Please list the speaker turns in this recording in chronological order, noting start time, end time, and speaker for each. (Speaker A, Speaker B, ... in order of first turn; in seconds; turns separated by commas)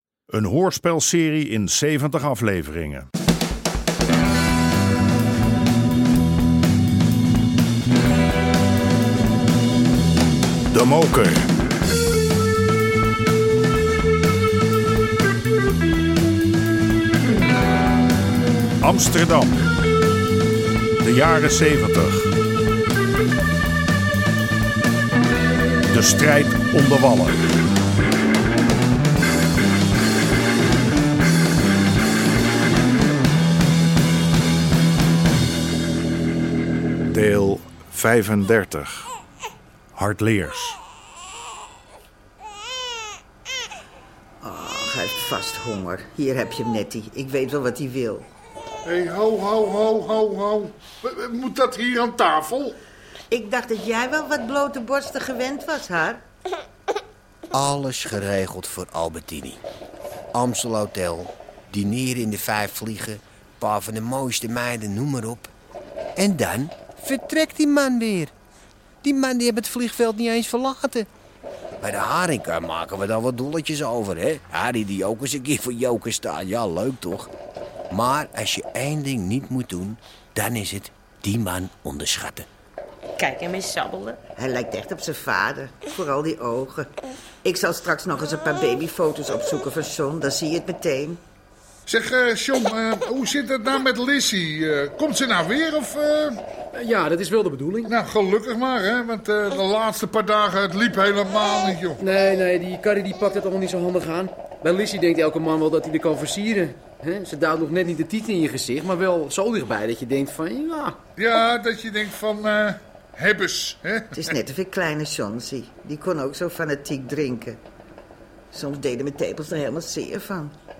Speaker A: 0.3-3.0, Speaker A: 10.7-11.3, Speaker A: 18.9-19.5, Speaker A: 21.0-22.1, Speaker A: 25.9-27.3, Speaker A: 37.1-38.0, Speaker A: 40.0-40.4, Speaker B: 44.4-48.3, Speaker C: 48.8-52.8, Speaker B: 53.3-56.2, Speaker D: 57.5-59.6, Speaker D: 60.3-65.5, Speaker D: 66.2-68.3, Speaker D: 69.0-71.1, Speaker D: 71.8-77.3, Speaker D: 77.9-82.5, Speaker D: 83.2-84.2, Speaker B: 84.4-86.9, Speaker B: 87.4-91.2, Speaker C: 91.8-96.4, Speaker E: 96.9-97.7, Speaker C: 97.8-102.0, Speaker A: 102.0-103.5, Speaker E: 102.7-110.9, Speaker C: 111.2-114.3, Speaker B: 114.1-117.6, Speaker B: 118.5-120.5